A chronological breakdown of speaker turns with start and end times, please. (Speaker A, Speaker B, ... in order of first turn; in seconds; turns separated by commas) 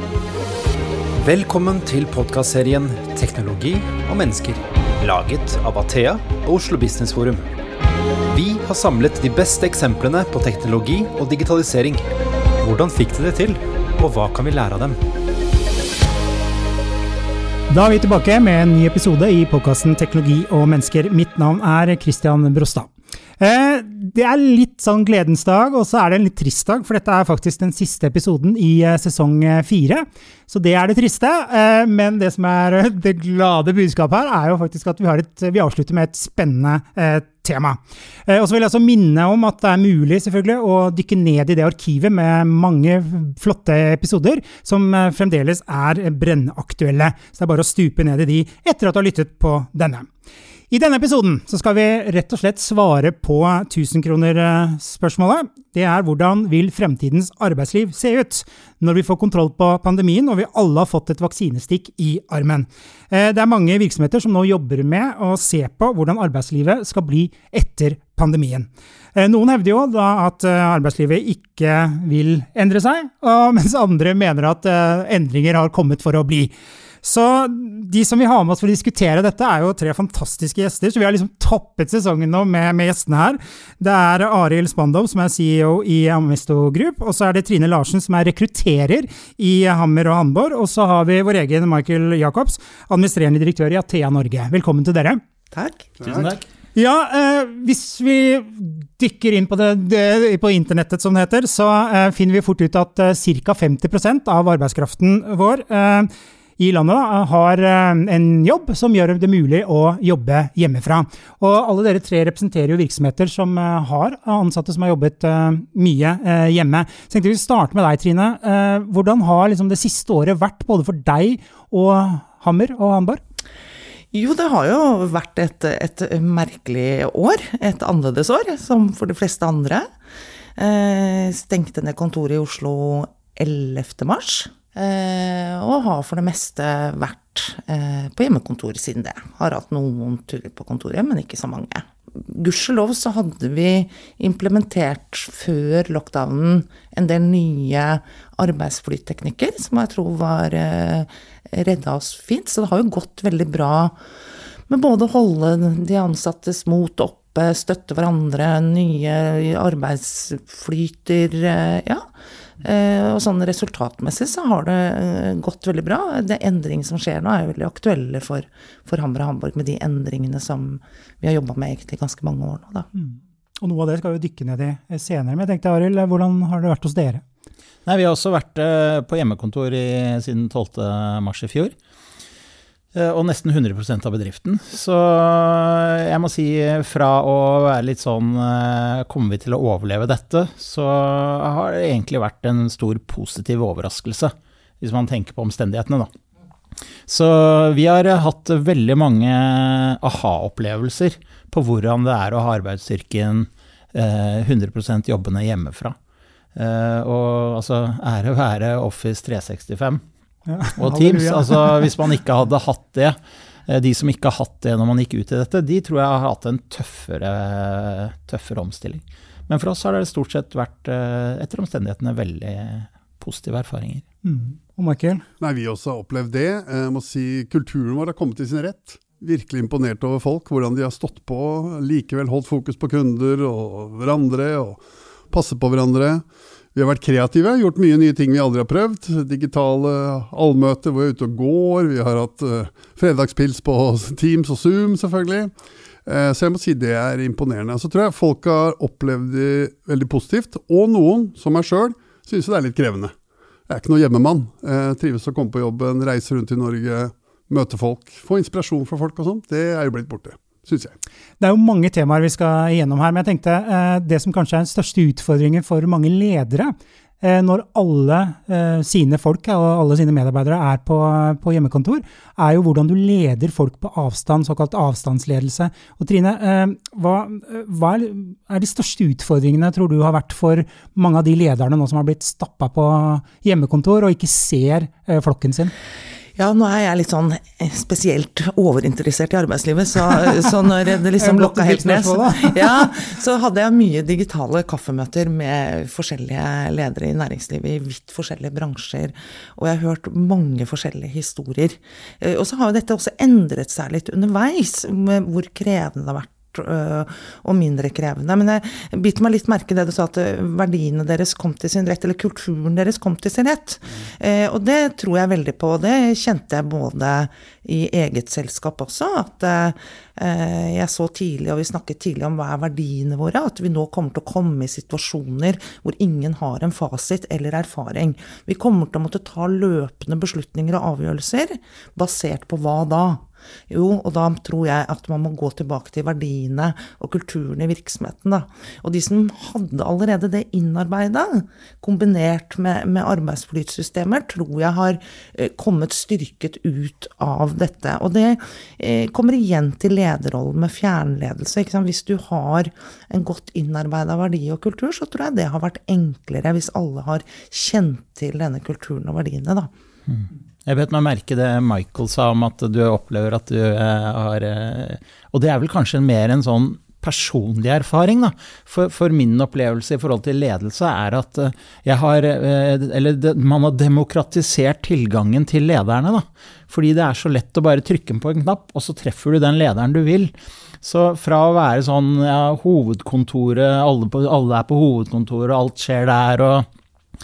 Speaker A: 1.2-7.4, Speaker A: 8.3-12.0, Speaker A: 12.6-15.0, Speaker B: 17.7-50.1, Speaker B: 50.7-76.5, Speaker B: 77.0-95.2, Speaker C: 95.5-95.9, Speaker D: 96.0-96.4, Speaker B: 96.8-123.2, Speaker C: 124.1-129.9, Speaker C: 130.6-154.0, Speaker C: 154.7-162.1, Speaker C: 162.6-172.9, Speaker B: 172.9-177.2, Speaker D: 177.9-181.8, Speaker D: 182.9-196.1, Speaker D: 197.1-206.0, Speaker D: 206.6-210.0, Speaker B: 210.5-211.9, Speaker D: 210.8-224.0, Speaker B: 224.2-225.2, Speaker E: 225.4-236.2, Speaker E: 236.8-245.5, Speaker E: 246.1-253.1, Speaker E: 253.7-260.9, Speaker B: 261.4-285.7, Speaker C: 286.4-359.7, Speaker B: 291.2-292.9, Speaker D: 360.1-386.6